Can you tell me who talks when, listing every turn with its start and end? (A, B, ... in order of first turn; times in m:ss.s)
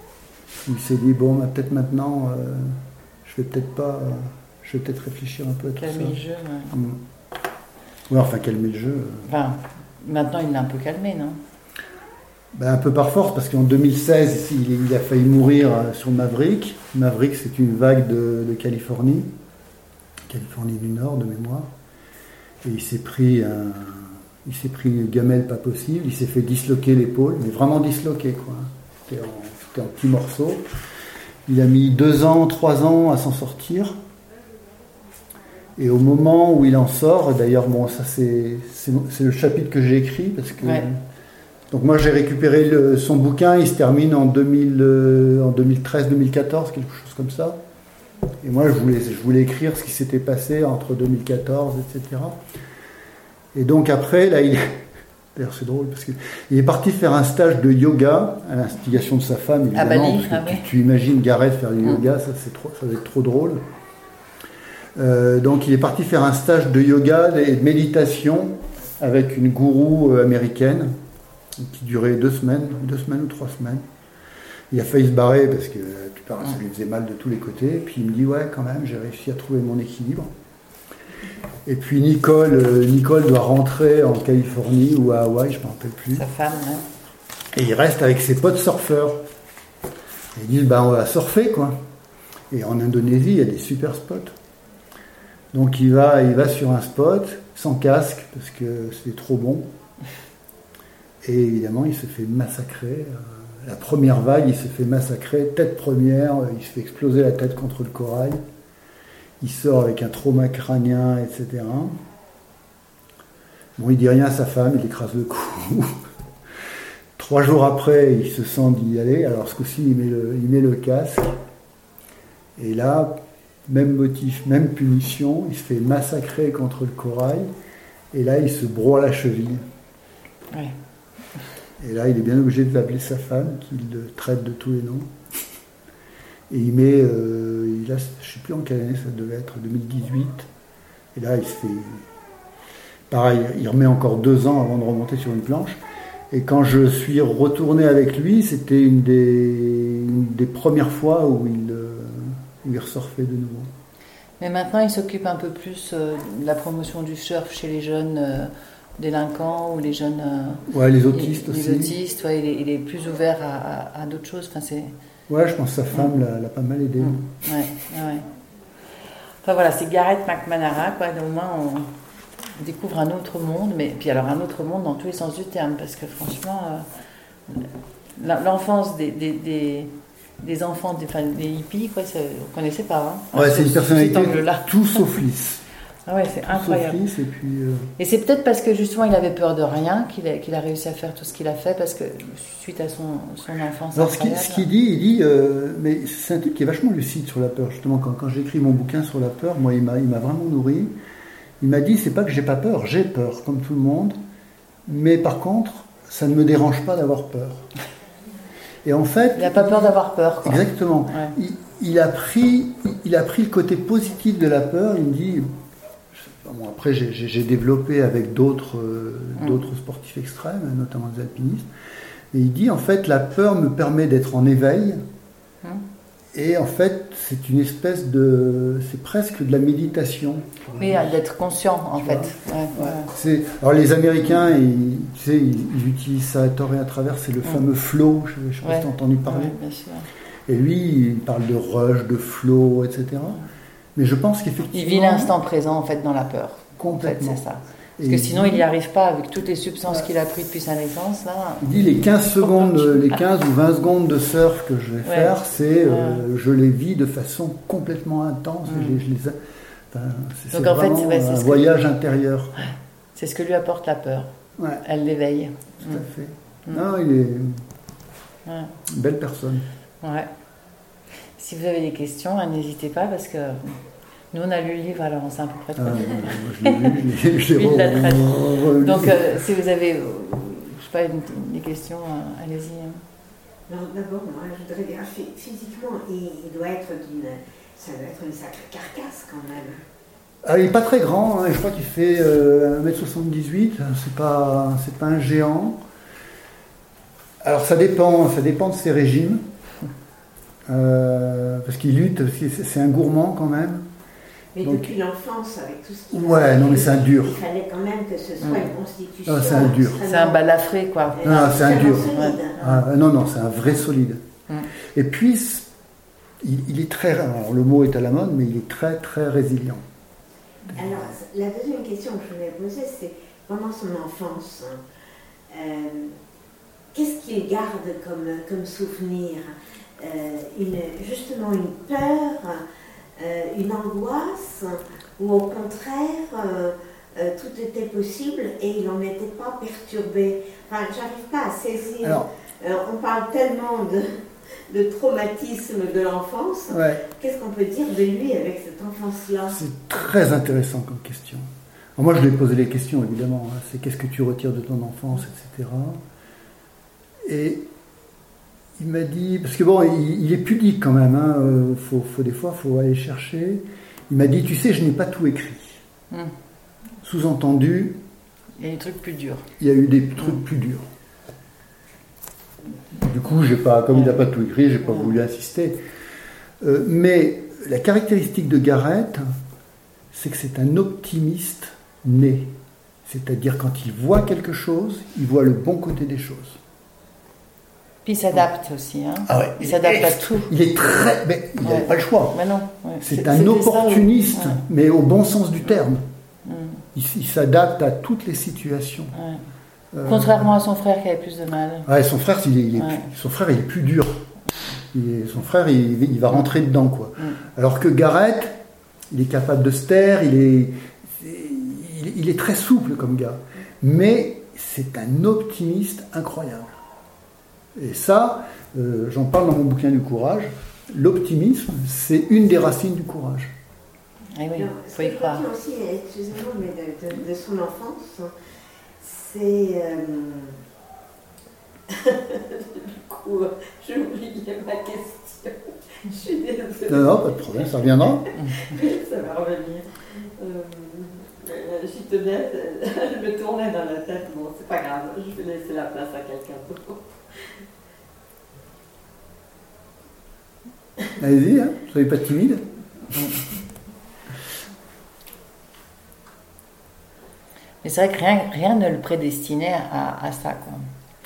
0:00.6-0:06.2 A
0:05.8-0:06.8 B
0:06.7-0:07.0 A
0:08.1-0:09.3 A
0:09.2-0:11.4 B
0:12.5-0:19.3 A
0:20.3-0:21.7 A
0:22.6-0:30.7 A
0:31.5-0:34.0 A
0:35.8-0:41.0 A
0:40.6-0:40.9 B
0:41.7-0:47.6 A
0:48.4-0:52.4 A
0:53.5-0:54.8 A
0:55.4-1:03.6 A
0:59.8-1:00.7 B
1:05.0-1:10.9 A
1:11.6-1:13.8 A
1:14.7-1:20.3 A
1:21.7-1:26.3 A
1:26.1-1:26.8 B
1:27.5-1:29.2 A
1:30.4-1:31.8 A
1:32.5-1:34.3 A
1:35.5-1:39.7 A
1:41.2-1:48.4 A
1:49.4-1:52.0 A
1:53.8-1:56.0 A
1:57.2-2:01.4 A
2:02.6-2:03.2 A
2:03.7-2:07.5 A
2:08.1-2:09.6 A
2:11.8-2:15.1 A
2:16.5-2:20.5 A
2:21.2-2:22.0 A
2:23.1-2:25.8 A
2:26.3-2:33.7 A
2:34.4-2:44.9 B
2:40.7-2:42.0 A
2:45.3-2:47.2 A
2:47.0-2:48.2 B
2:49.4-2:51.9 B
2:52.6-2:56.9 B
2:57.5-3:04.7 B
3:03.3-3:05.6 A
3:06.1-3:07.0 B
3:06.5-3:07.9 A
3:08.0-3:14.7 B
3:13.9-3:20.9 A
3:21.6-3:24.2 A
3:24.9-3:27.7 A
3:28.8-3:35.5 A
3:29.4-3:31.3 B
3:36.1-3:41.7 A
3:42.3-3:45.0 A
3:46.3-3:51.1 A
3:50.8-3:53.1 B
3:52.0-3:59.6 A
3:58.6-4:00.1 B
4:00.5-4:03.4 A
4:04.0-4:05.3 A
4:04.7-4:13.2 B
4:06.8-4:07.4 A
4:08.0-4:08.6 A
4:11.6-4:19.4 A
4:15.0-4:15.4 B
4:15.9-4:16.2 B
4:18.7-4:19.0 B
4:19.9-4:22.7 A
4:20.5-4:21.8 B
4:22.6-4:24.3 B
4:24.6-4:24.8 A
4:24.8-4:26.0 B
4:25.8-4:27.6 A
4:28.5-4:28.8 B
4:28.9-4:29.7 A
4:30.0-4:30.3 B
4:31.4-4:33.7 B
4:34.3-4:43.0 B
4:35.8-4:39.3 A
4:43.7-4:49.8 C
4:50.4-4:55.8 A
4:57.4-4:59.4 A
5:00.7-5:03.9 A
5:04.6-5:10.6 C
5:04.6-5:04.9 A
5:06.1-5:07.4 A
5:09.3-5:10.0 A
5:10.0-5:12.4 B
5:11.1-5:12.8 C
5:11.2-5:14.2 A
5:14.9-5:15.7 A
5:16.4-5:19.8 A
5:20.7-5:24.8 C
5:25.5-5:26.2 C
5:26.9-5:32.6 C
5:33.2-5:44.2 C
5:42.0-5:42.3 A
5:44.7-5:49.6 C
5:46.7-5:47.0 A
5:49.5-5:56.0 A
5:57.2-5:57.6 A
5:58.8-6:05.8 A
6:07.0-6:08.0 A
6:08.6-6:09.5 B
6:09.6-6:10.8 A
6:13.0-6:15.8 A
6:16.6-6:19.3 A
6:20.1-6:22.5 A
6:23.1-6:26.6 A
6:28.0-6:30.5 B
6:29.3-6:32.4 A
6:31.6-6:34.6 B
6:33.0-6:36.0 A
6:36.4-6:36.8 B
6:37.0-6:39.2 A
6:39.2-6:39.4 B
6:39.9-6:40.5 A
6:40.0-6:41.9 B
6:41.9-6:44.3 A
6:42.8-6:43.1 B
6:44.9-6:48.6 A
6:49.1-6:56.7 A
6:57.8-7:03.6 A
7:04.4-7:05.5 B
7:04.6-7:08.3 C
7:09.0-7:10.6 C
7:11.9-7:17.7 C
7:16.9-7:18.3 A
7:18.3-7:27.1 C
7:31.2-7:32.6 A
7:37.8-7:40.9 B